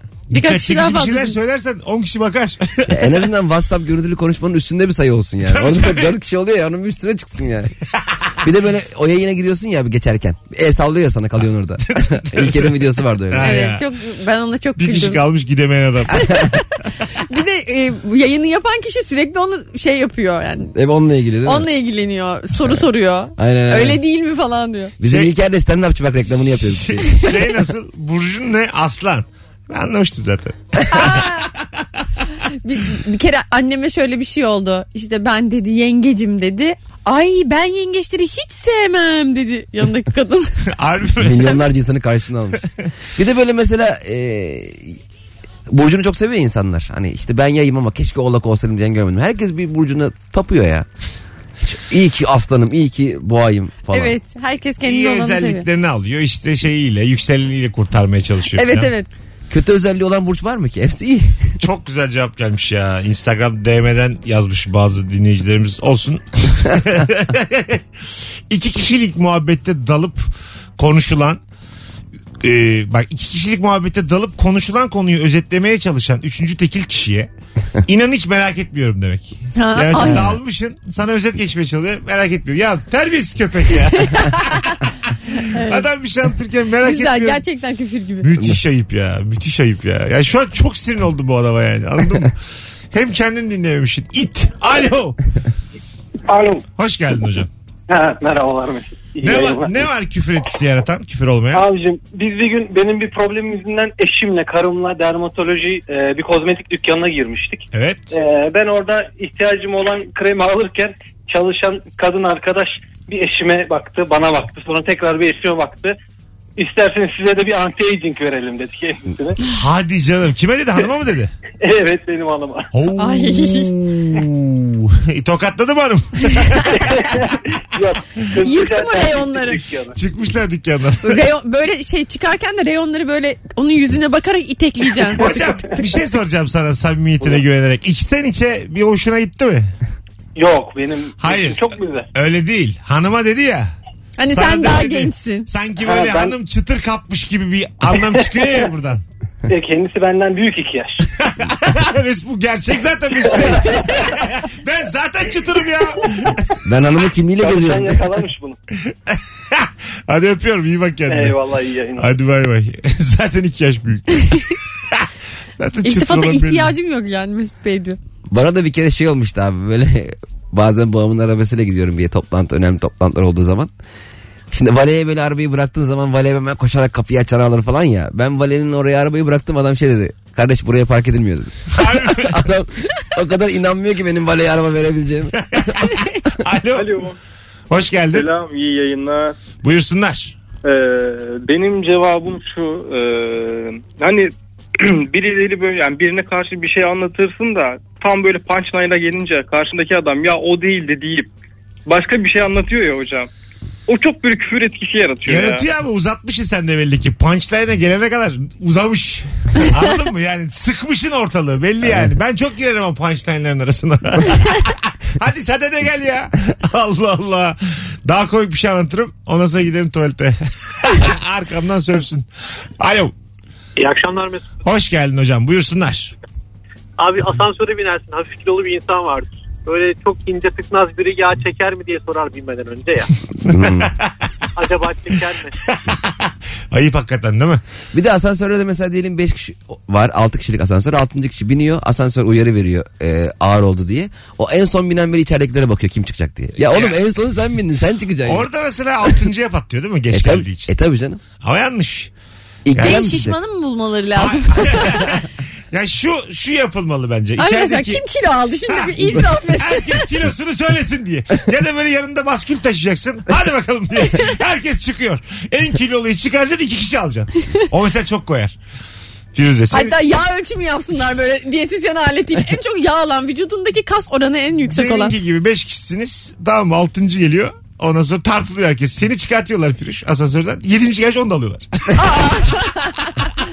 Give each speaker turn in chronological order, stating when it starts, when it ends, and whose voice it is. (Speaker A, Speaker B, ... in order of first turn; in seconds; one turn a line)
Speaker A: 0.3-3.1
Speaker B: 0.3-1.4
Speaker C: 2.9-7.7
Speaker A: 5.5-6.1
Speaker C: 8.4-13.6
Speaker A: 11.9-13.8
Speaker B: 13.4-15.2
Speaker A: 14.8-16.3
Speaker B: 16.1-20.7
Speaker C: 20.7-21.7
Speaker B: 21.4-24.9
Speaker C: 23.4-24.0
Speaker C: 25.0-27.3
Speaker A: 25.0-25.3
Speaker A: 26.6-31.8
Speaker B: 30.9-31.5
Speaker B: 32.6-40.6
Speaker A: 40.7-41.6
Speaker C: 41.2-42.6
Speaker C: 43.1-45.0
Speaker C: 45.7-50.9
Speaker C: 51.6-54.1
Speaker B: 53.9-55.7
Speaker A: 54.8-58.9
Speaker B: 58.5-59.1
Speaker C: 59.5-61.5
Speaker A: 61.6-67.8
Speaker A: 68.5-70.2
Speaker A: 70.8-71.4
Speaker A: 72.4-77.3
Speaker A: 77.8-84.8
Speaker B: 79.5-80.3
Speaker B: 83.9-84.8
Speaker A: 85.3-87.4
Speaker B: 85.4-85.9
Speaker B: 86.8-88.3
Speaker A: 88.2-92.3
Speaker A: 92.9-95.2
Speaker D: 96.3-96.6
Speaker A: 96.8-97.5
Speaker D: 97.9-99.9
Speaker A: 99.2-101.6
Speaker E: 99.2-99.7
Speaker D: 101.5-107.6
Speaker E: 102.9-104.4
Speaker E: 106.4-107.6
Speaker A: 107.7-108.0
Speaker D: 108.1-110.8
Speaker E: 108.7-115.9
Speaker D: 111.3-112.5
Speaker D: 113.1-115.8
Speaker D: 116.6-119.4
Speaker E: 116.7-117.7
Speaker E: 118.6-119.2
Speaker A: 119.4-121.3
Speaker D: 121.7-122.6
Speaker E: 121.8-122.4
Speaker A: 122.7-127.0
Speaker B: 123.0-123.7
Speaker B: 126.3-126.6
Speaker D: 126.7-129.9
Speaker B: 128.4-129.6
Speaker E: 128.4-129.9
Speaker A: 129.9-131.2
Speaker B: 131.0-135.4
Speaker A: 135.2-139.7
Speaker D: 140.4-142.1
Speaker A: 141.2-143.7
Speaker E: 141.4-141.7
Speaker B: 144.2-145.5
Speaker A: 144.3-149.0
Speaker D: 145.8-146.3
Speaker E: 145.9-146.3
Speaker D: 147.9-148.7
Speaker D: 149.5-151.0
Speaker A: 151.2-156.4
Speaker D: 153.2-154.1
Speaker C: 156.6-158.1
Speaker D: 157.4-158.6
Speaker A: 158.9-161.4
Speaker D: 161.1-162.1
Speaker E: 161.1-162.0
Speaker A: 162.0-165.1
Speaker A: 165.6-166.7
Speaker B: 165.8-168.0
Speaker C: 168.3-173.7
Speaker C: 174.5-185.4
Speaker A: 181.7-182.4
Speaker A: 185.5-187.0
Speaker F: 186.7-187.1
Speaker A: 187.7-188.3
Speaker F: 188.1-189.4
Speaker A: 189.6-190.3
Speaker F: 190.6-201.3
Speaker F: 201.9-203.3
Speaker F: 203.9-205.6
Speaker A: 205.2-222.3
Speaker C: 211.8-212.1
Speaker A: 222.8-223.1
Speaker E: 223.8-224.6
Speaker A: 224.6-226.1
Speaker E: 227.0-233.1
Speaker A: 233.4-234.1
Speaker C: 233.4-233.9
Speaker E: 234.6-235.5
Speaker A: 235.7-237.6
Speaker C: 237.9-248.5
Speaker A: 246.6-247.0
Speaker A: 248.2-250.7
Speaker C: 250.1-251.2
Speaker A: 251.4-252.1
Speaker C: 252.7-253.3
Speaker A: 252.7-253.0
Speaker B: 252.7-255.2
Speaker A: 254.2-258.0
Speaker B: 257.4-260.1
Speaker A: 258.7-268.6
Speaker A: 269.3-270.0
Speaker B: 269.7-275.1
Speaker A: 274.7-282.6
Speaker B: 281.9-283.1